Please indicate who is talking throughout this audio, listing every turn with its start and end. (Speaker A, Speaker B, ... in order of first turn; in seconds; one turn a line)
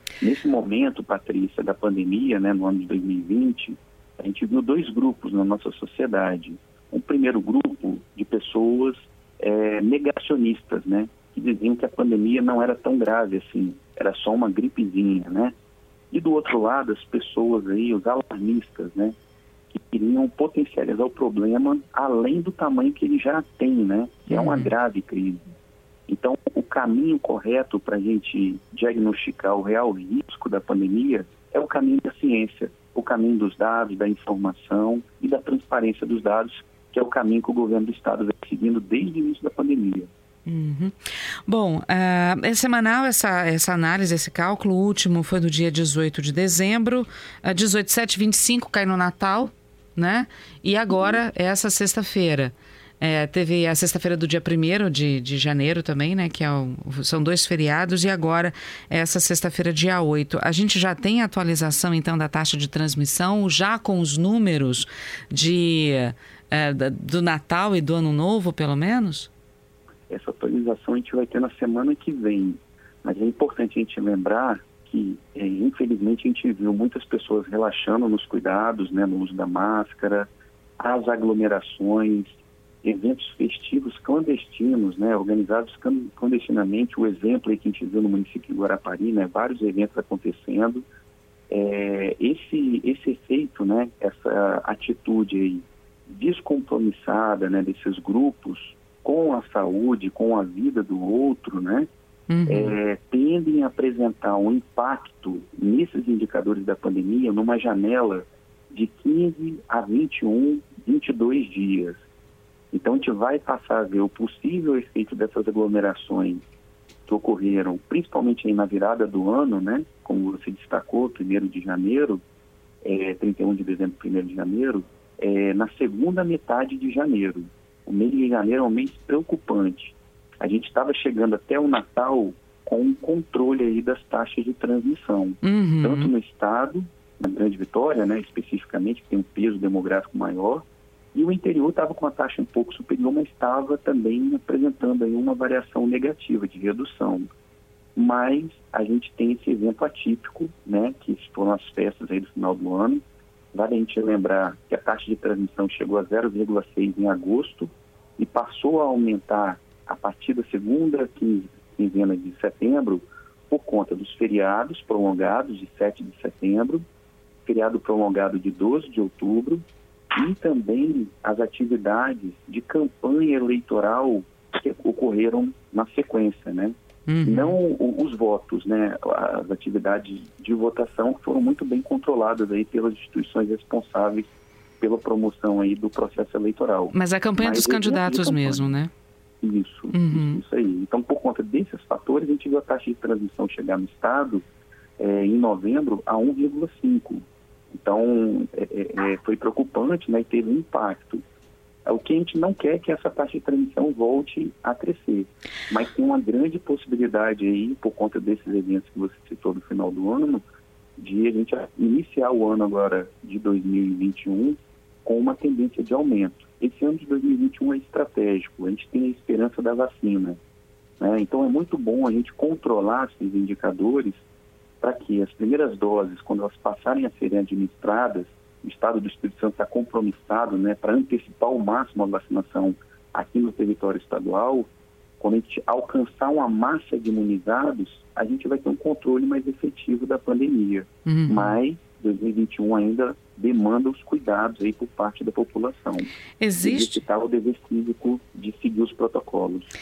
Speaker A: 0.2-15.5
Speaker A: 16.1-19.1
Speaker A: 19.7-25.4
Speaker B: 24.3-24.7
Speaker A: 26.1-40.1
Speaker B: 40.5-41.0
Speaker B: 41.5-69.3
Speaker A: 70.1-80.3
Speaker A: 80.8-90.8
Speaker A: 91.5-101.9
Speaker B: 102.3-102.7
Speaker A: 102.5-112.0
Speaker A: 112.7-116.4
Speaker A: 117.1-122.2
Speaker A: 122.8-147.3
Speaker B: 135.4-136.1
Speaker A: 147.9-166.8
Speaker A: 167.4-188.7
Speaker B: 177.1-177.6
Speaker B: 186.9-188.9
Speaker A: 189.4-194.4
Speaker B: 189.9-190.4
Speaker A: 195.0-201.2
Speaker A: 201.8-210.4
Speaker A: 211.0-220.4
Speaker A: 221.0-224.2
Speaker A: 224.8-234.7
Speaker A: 235.2-249.7
Speaker B: 241.0-241.5
Speaker B: 246.4-247.0